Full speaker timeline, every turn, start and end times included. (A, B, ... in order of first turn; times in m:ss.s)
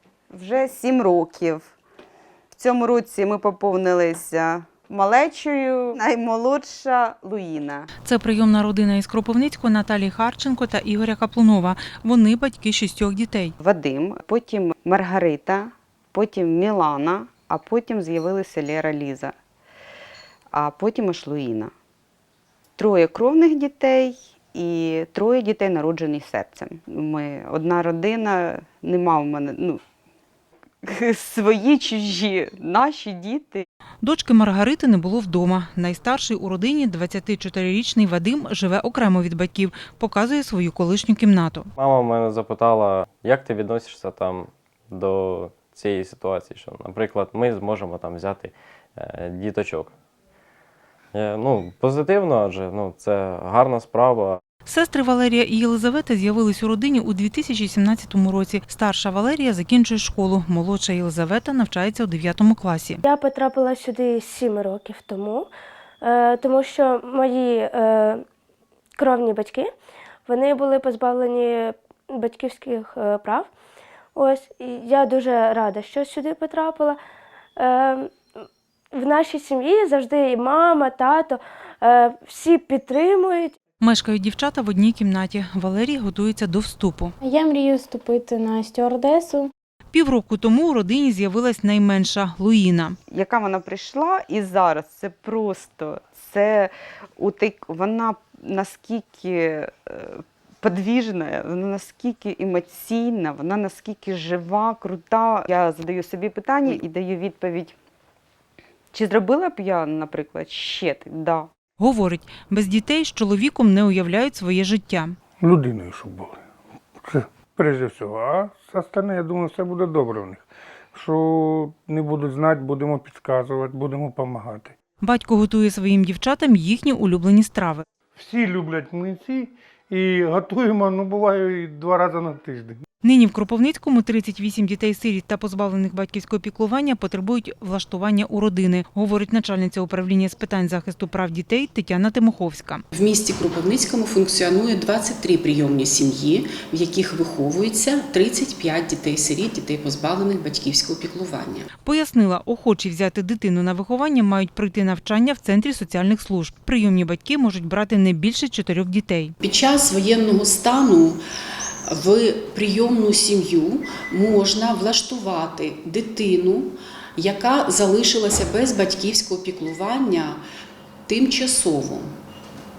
0:00.3-0:01.7 A
0:02.6-0:07.9 A
0:08.0-0:13.5 B
0:13.6-0:19.4 A
0:20.5-0:21.7 A
0:22.8-0:29.8 A
0:30.8-0:33.7 A
0:34.0-0:41.7 B
0:41.8-0:49.9 C
0:51.1-0:54.4 C
0:54.6-1:03.0 B
1:03.1-1:05.5 D
1:06.0-1:08.2 D
1:09.0-1:09.7 D
1:10.3-1:13.5 D
1:14.2-1:17.0 D
1:17.6-1:23.5 D
1:23.8-1:27.2 B
1:27.2-1:29.5 E
1:29.9-1:33.0 B
1:33.1-1:47.8 A
1:48.9-1:51.5 A
1:51.8-1:55.2 B
1:55.4-1:56.4 F
1:57.0-2:04.8 F
2:05.0-2:07.8 B
2:08.2-2:12.8 F
2:13.0-2:22.8 B
2:22.9-2:31.7 G
2:31.8-2:39.4 B
2:39.4-2:41.2 G
2:41.9-2:50.4 G
2:51.1-2:52.1 G